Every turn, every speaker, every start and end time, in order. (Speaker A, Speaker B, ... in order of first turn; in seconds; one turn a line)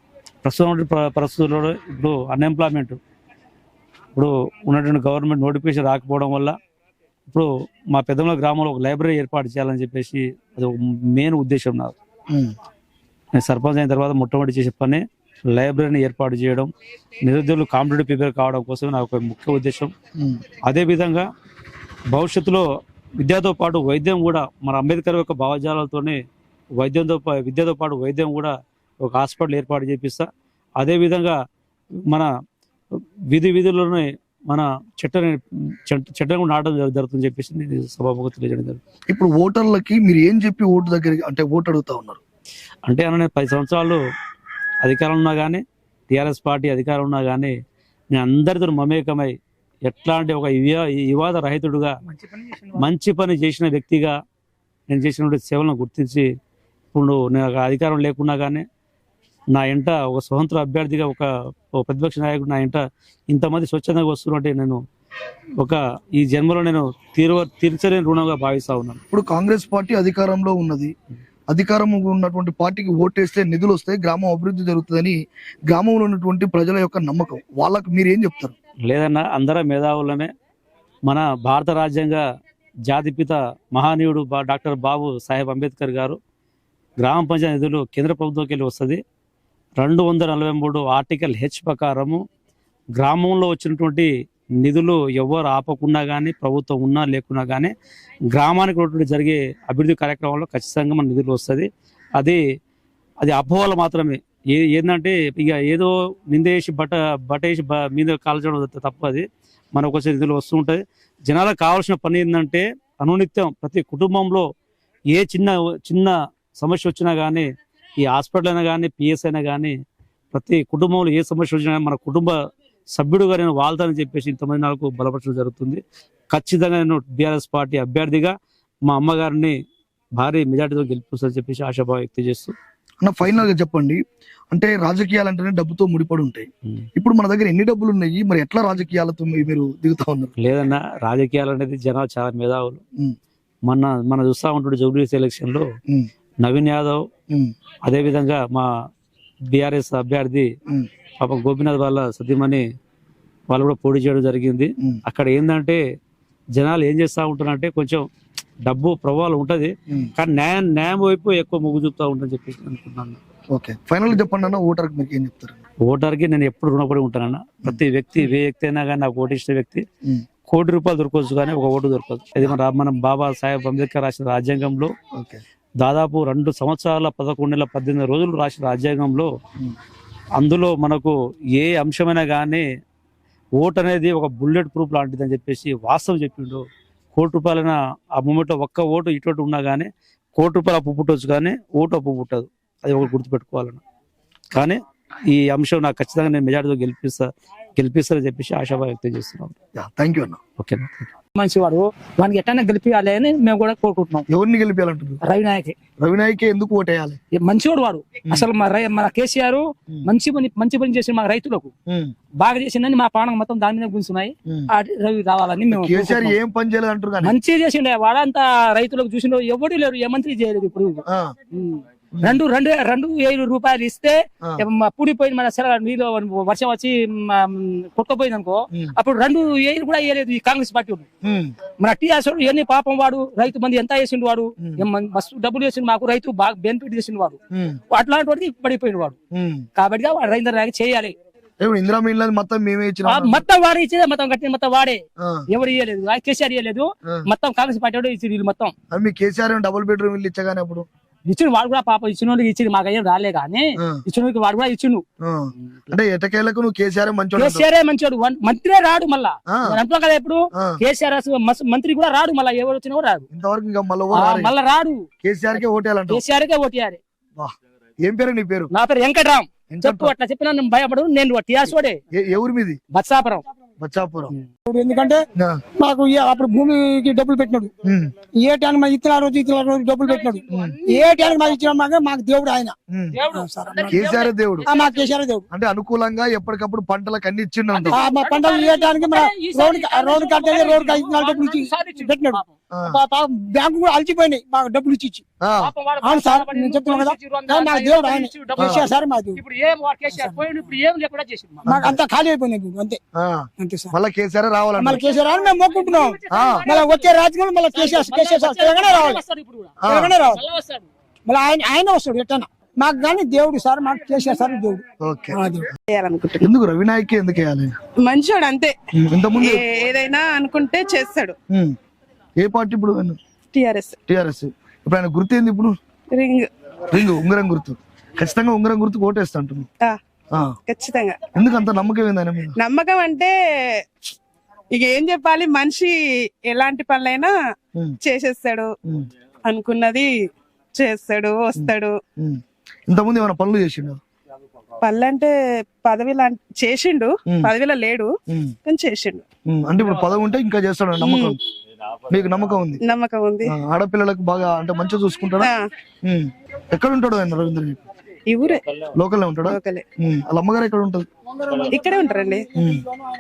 Speaker A: 0.4-3.0
Speaker A: 4.1-6.5
Speaker A: 7.3-11.9
Speaker A: 13.4-16.7
Speaker A: 17.2-19.9
Speaker A: 20.7-21.2
Speaker A: 22.1-22.6
Speaker A: 23.2-26.2
Speaker A: 26.8-30.2
Speaker A: 30.8-31.3
Speaker A: 33.3-38.8
Speaker B: 39.1-42.2
Speaker A: 42.9-44.0
Speaker A: 44.8-47.5
Speaker A: 48.1-49.3
Speaker A: 49.9-51.9
Speaker C: 52.1-52.8
Speaker A: 52.8-54.1
Speaker A: 54.9-56.2
Speaker A: 56.9-58.6
Speaker A: 59.5-61.3
Speaker A: 61.8-64.8
Speaker A: 65.6-69.0
Speaker B: 69.1-70.9
Speaker B: 71.5-75.2
Speaker B: 75.7-78.5
Speaker A: 78.8-80.3
Speaker A: 81.0-82.2
Speaker A: 82.9-86.2
Speaker A: 87.0-89.0
Speaker A: 89.8-92.2
Speaker A: 93.0-94.1
Speaker A: 94.6-97.7
Speaker A: 98.3-102.4
Speaker A: 103.2-114.4
Speaker A: 115.1-117.5
Speaker A: 118.1-119.7
Speaker A: 120.3-122.3
Speaker A: 122.9-125.8
Speaker A: 126.3-128.3
Speaker A: 128.8-129.5
Speaker A: 130.2-132.5
Speaker B: 133.0-134.0
Speaker B: 134.5-140.3
Speaker A: 140.4-142.8
Speaker A: 143.7-145.6
Speaker A: 146.4-147.0
Speaker A: 147.8-148.7
Speaker A: 149.5-150.5
Speaker A: 151.2-152.6
Speaker A: 153.5-155.8
Speaker A: 156.6-158.0
Speaker A: 158.7-163.2
Speaker B: 163.5-165.6
Speaker A: 165.8-169.8
Speaker A: 170.5-174.9
Speaker B: 175.2-175.4
Speaker A: 175.8-179.3
Speaker A: 180.4-182.6
Speaker A: 183.6-186.6
Speaker A: 187.2-193.8
Speaker A: 194.5-194.8
Speaker A: 195.3-199.5
Speaker B: 199.8-200.4
Speaker A: 200.6-201.1
Speaker C: 201.3-204.2
Speaker B: 204.3-205.2
Speaker C: 205.2-205.8
Speaker B: 206.0-207.2
Speaker C: 207.3-211.7
Speaker B: 211.9-212.1
Speaker C: 212.4-216.3
Speaker B: 215.7-217.3
Speaker C: 217.2-231.1
Speaker B: 221.1-221.3
Speaker B: 222.2-222.4
Speaker B: 231.2-231.5
Speaker C: 231.8-237.4
Speaker B: 237.5-237.8
Speaker C: 237.9-239.2
Speaker B: 239.3-239.7
Speaker C: 239.8-241.1
Speaker B: 241.6-243.4
Speaker C: 243.1-248.7
Speaker B: 245.2-245.5
Speaker B: 248.9-250.8
Speaker C: 251.2-255.0
Speaker B: 255.2-257.6
Speaker C: 257.4-263.2
Speaker B: 259.5-259.8
Speaker B: 263.3-264.5
Speaker C: 264.1-265.1
Speaker B: 265.2-266.2
Speaker C: 265.6-267.0
Speaker B: 267.4-268.7
Speaker C: 268.7-272.0
Speaker B: 269.7-270.1
Speaker B: 272.1-272.8
Speaker C: 272.9-273.4
Speaker B: 273.8-274.3
Speaker D: 274.7-275.2
Speaker D: 275.8-277.7
Speaker B: 277.8-278.1
Speaker D: 278.3-282.8
Speaker C: 280.0-281.6
Speaker B: 280.5-280.8
Speaker B: 282.9-283.2
Speaker C: 283.1-285.1
Speaker D: 283.4-283.9
Speaker B: 283.9-284.7
Speaker D: 284.7-285.4
Speaker B: 285.5-288.0
Speaker C: 287.7-292.5
Speaker D: 287.9-295.2
Speaker B: 292.7-293.0
Speaker B: 295.4-295.7
Speaker C: 295.6-301.7
Speaker D: 296.0-299.4
Speaker B: 298.6-298.9
Speaker B: 301.6-302.0
Speaker D: 301.7-303.0
Speaker B: 303.1-305.0
Speaker D: 303.6-303.9
Speaker D: 304.8-309.2
Speaker C: 304.9-310.9
Speaker B: 306.3-306.7
Speaker B: 309.8-310.1
Speaker D: 309.9-310.4
Speaker D: 311.2-314.8
Speaker B: 315.0-315.4
Speaker D: 315.3-315.7
Speaker E: 315.9-316.5
Speaker B: 316.4-317.7
Speaker E: 318.0-318.7
Speaker B: 319.0-319.6
Speaker E: 319.4-321.4
Speaker B: 322.4-323.2
Speaker E: 323.5-323.9
Speaker B: 324.1-325.7
Speaker E: 326.1-326.5
Speaker B: 326.9-329.7
Speaker E: 330.7-331.2
Speaker B: 331.4-332.5
Speaker E: 332.6-333.3
Speaker E: 334.7-337.3
Speaker E: 338.0-338.7
Speaker E: 339.4-340.1
Speaker E: 340.7-341.9
Speaker B: 341.5-344.0
Speaker E: 344.8-345.3
Speaker E: 345.8-348.1
Speaker E: 348.6-349.2
Speaker B: 349.5-351.4
Speaker E: 351.0-351.4
Speaker B: 352.1-352.8
Speaker E: 352.8-353.5
Speaker B: 353.4-355.5
Speaker E: 355.4-355.7
Speaker B: 356.0-357.8
Speaker E: 358.3-358.6
Speaker B: 358.9-361.1
Speaker E: 359.5-359.8
Speaker E: 361.6-362.5
Speaker B: 362.6-362.8